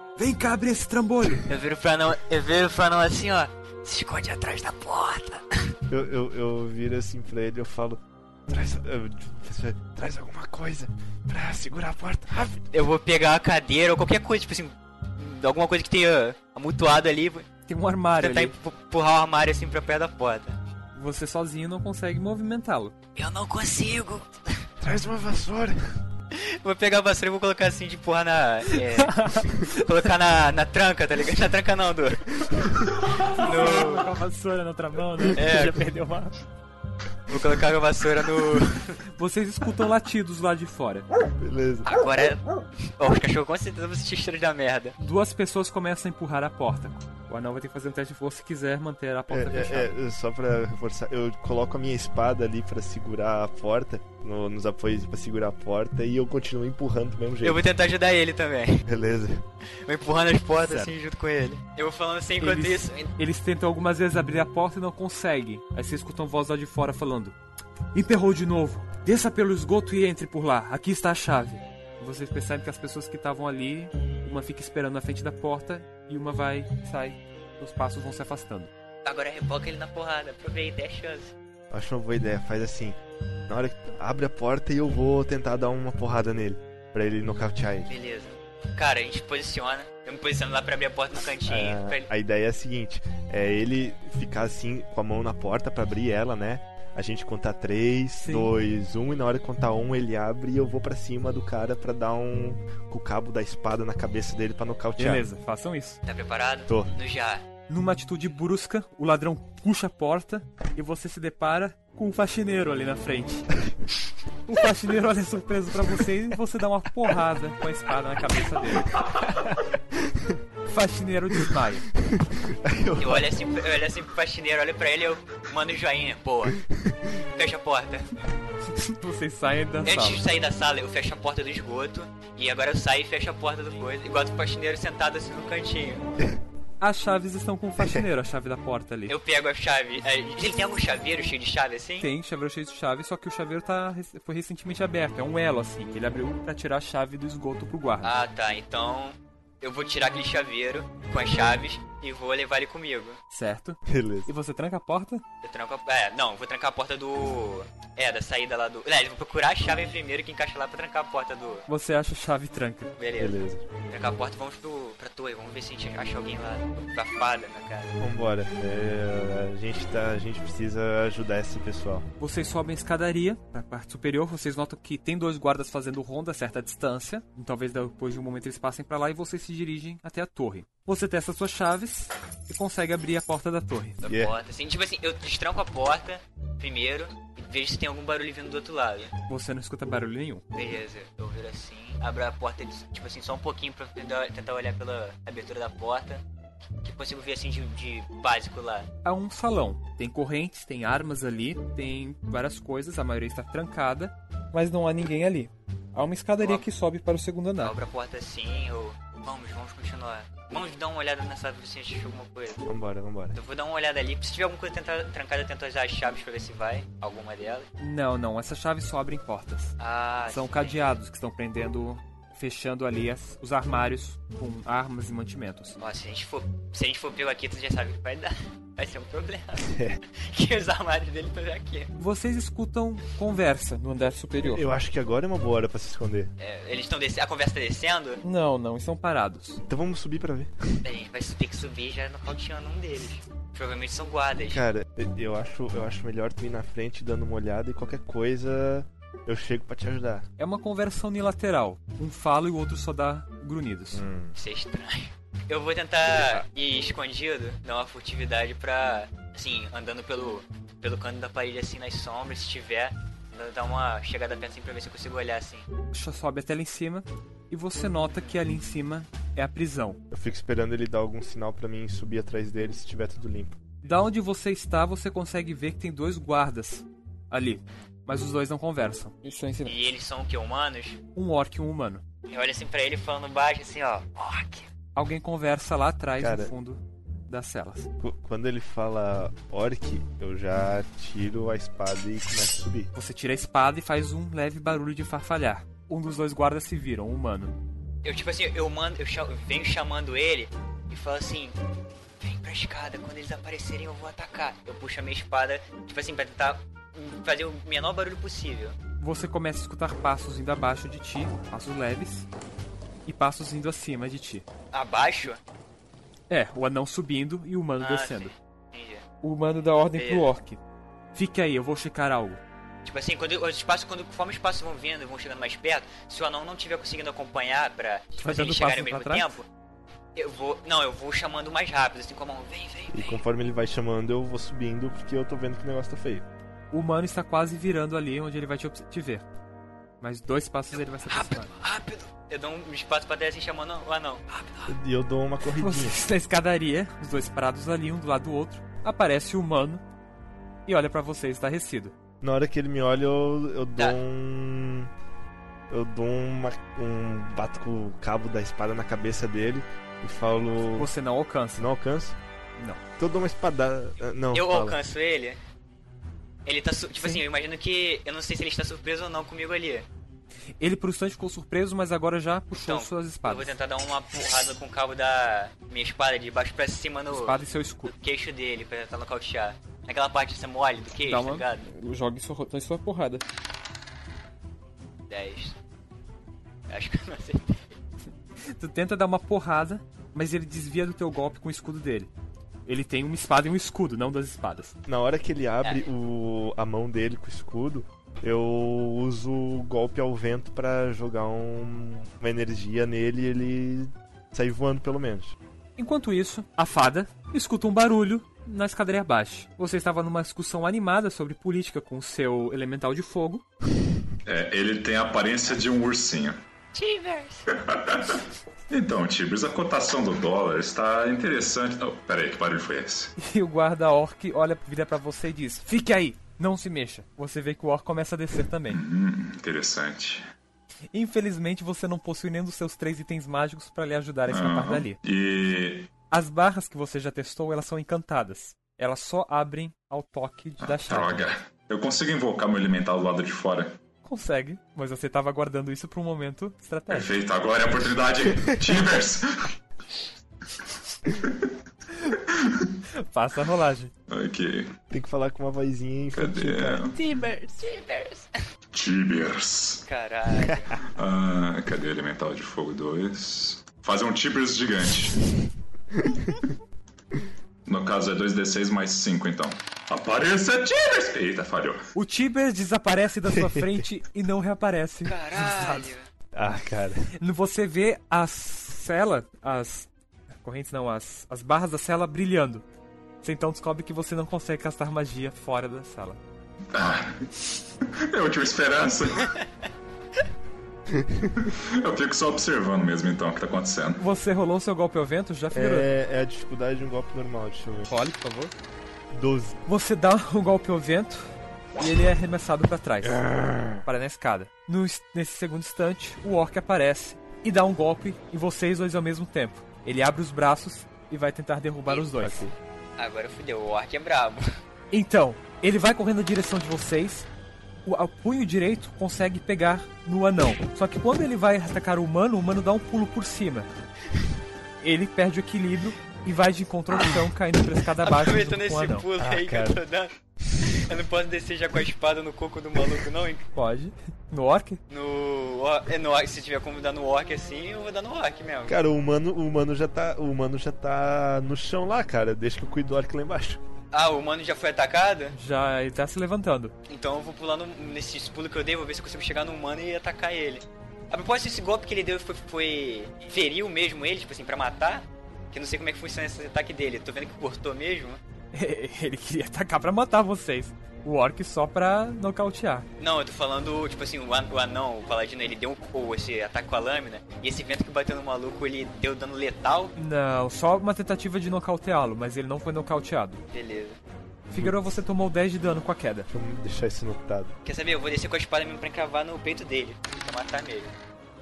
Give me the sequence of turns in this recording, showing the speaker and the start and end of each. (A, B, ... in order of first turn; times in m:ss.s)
0:00.2-0:01.5 A
0:01.4-0:05.6 B
0:05.9-0:12.6 C
0:12.7-0:17.5 B
0:17.7-0:18.5 A
0:18.2-0:20.6 B
0:20.9-0:22.9 A
0:23.1-0:24.6 B
0:24.8-0:25.8 C
0:26.3-0:34.1 B
0:28.9-0:29.8 A
0:33.2-0:36.4 A
0:35.3-0:35.8 B
0:37.3-0:39.0 B
0:39.2-0:41.1 A
0:41.4-0:41.9 C
0:41.8-0:45.0 B
0:45.0-0:50.0 A
0:49.3-0:57.6 C
0:57.4-0:58.8 B
0:58.8-0:59.4 C
0:59.8-1:03.1 B
1:00.7-1:00.9 C
1:02.4-1:07.4 A
1:07.9-1:18.7 A
1:19.0-1:21.3 B
1:21.7-1:23.0 C
1:23.5-1:27.9 C
1:27.9-1:32.1 B
1:31.5-1:45.2 C
1:38.2-1:38.5 A
1:45.0-1:46.0 A
1:46.0-1:47.4 B
1:46.7-1:46.9 C
1:47.7-1:53.5 A
1:54.5-1:59.0 A
2:00.0-2:00.4 C
2:00.7-2:01.9 A
2:02.1-2:03.4 C
2:03.0-2:06.6 B
2:07.3-2:08.2 B
2:08.7-2:10.2 A
2:09.8-2:16.0 B
2:16.8-2:19.1 A
2:19.1-2:22.1 B
2:22.0-2:28.1 A
2:28.0-2:33.2 B
2:33.3-2:35.2 A
2:33.8-2:34.3 C
2:35.4-2:41.7 B
2:41.7-2:42.9 A
2:43.0-2:43.4 B
2:43.2-2:43.7 C
2:43.9-2:48.0 B
2:48.0-2:52.0 C
2:52.2-3:04.0 A
3:04.0-3:09.1 B
3:04.0-3:04.3 C
3:09.3-3:10.4 A
3:10.5-3:16.2 B
3:16.8-3:18.9 B
3:19.0-3:27.7 A
3:26.4-3:26.6 B
3:27.6-3:32.7 B
3:32.6-3:33.4 C
3:33.3-3:37.7 B
3:37.8-3:39.7 A
3:39.8-3:40.9 B
3:40.3-3:45.8 A
3:45.8-3:51.9 B
3:49.6-3:50.0 C
3:52.0-3:54.7 A
3:54.4-3:56.3 C
3:56.4-3:58.2 B
3:58.2-3:59.6 A
3:59.6-4:00.8 C
4:00.8-4:04.6 B
4:04.5-4:10.2 C
4:10.4-4:14.0 A
4:13.9-4:14.3 C
4:14.4-4:25.7 B
4:25.9-4:30.0 A
4:30.1-4:33.6 C
4:33.8-4:39.8 A
4:39.6-4:41.0 B
4:41.1-4:42.0 A
4:42.3-4:44.7 B
4:44.9-4:47.9 A
4:46.2-4:46.5 C
4:48.0-4:52.9 C
4:52.9-4:57.5 A
4:58.0-5:01.6 B
5:02.2-5:08.8 B
5:09.0-5:12.2 A
5:13.0-5:14.5 A
5:14.7-5:15.4 B
5:16.3-5:18.3 A
5:17.8-5:19.0 B
5:19.2-5:20.6 A
5:20.0-5:20.3 B
5:21.1-5:22.4 A
5:22.8-5:29.4 B
5:28.2-5:29.3 A
5:30.1-5:33.2 B
5:32.9-5:36.2 C
5:36.7-5:39.2 A
5:40.0-5:41.5 A
5:40.7-5:44.7 B
5:44.7-5:46.0 C
5:45.6-5:49.8 A
5:50.7-5:51.9 A
5:52.2-5:54.9 C
5:55.7-6:00.9 C
6:00.8-6:01.7 A
6:01.6-6:02.2 C
6:03.0-6:04.8 C
6:04.3-6:05.4 B
6:06.4-6:09.8 B
6:10.6-6:13.6 A
6:12.5-6:21.7 B
6:17.1-6:17.9 A
6:21.0-6:23.2 A
6:25.1-6:25.6 B
6:26.7-6:27.8 B
6:28.4-6:32.1 A
6:32.6-6:34.7 A
6:34.8-6:45.3 C
6:45.8-6:53.4 A
6:54.2-6:56.4 D
6:56.7-6:57.4 B
6:57.5-7:03.1 D
7:03.2-7:08.8 A
7:08.7-7:10.2 D
7:10.9-7:15.0 A
7:14.3-7:15.9 D
7:16.1-7:21.3 A
7:20.6-7:23.8 D
7:24.0-7:27.1 A
7:26.9-7:29.5 D
7:31.1-7:31.4 D
7:32.3-7:32.7 D
7:32.9-7:33.9 A
7:34.1-7:34.7 D
7:34.9-7:36.9 C
7:36.1-7:37.0 D
7:36.9-7:37.6 A
7:37.6-7:38.4 B
7:38.7-7:39.8 D
7:39.9-7:40.8 B
7:40.9-7:45.2 D
7:46.0-7:46.3 C
7:47.6-7:51.8 D
7:51.9-7:55.9 A
7:53.3-7:53.8 C
7:55.0-7:56.0 B
7:56.3-7:57.1 C
7:57.2-7:59.9 A
8:00.4-8:02.6 A
8:03.2-8:06.2 A
8:06.7-8:07.3 D
8:07.8-8:09.3 D
8:10.9-8:11.3 C
8:11.4-8:14.0 D
8:14.0-8:15.9 A
8:15.5-8:17.9 C
8:17.9-8:18.5 A
8:19.1-8:19.6 C
8:19.6-8:32.4 A
8:23.3-8:23.7 C
8:31.9-8:32.2 B
8:32.2-8:32.5 C
8:33.0-8:34.5 B
8:34.9-8:37.3 A
8:37.8-8:43.7 A
8:44.8-8:49.1 A
8:48.0-8:53.5 B
8:49.2-8:49.8 C
8:53.5-8:54.8 A
8:54.9-8:58.8 B
8:58.7-9:03.6 C
9:03.9-9:05.3 B
9:05.3-9:06.7 A
9:06.9-9:18.2 B
9:18.5-9:22.9 A
9:23.0-9:29.9 B
9:30.0-9:33.4 A
9:33.5-9:34.0 B
9:34.5-9:36.3 A
9:34.6-9:34.9 C
9:36.3-9:37.5 C
9:37.6-9:40.9 B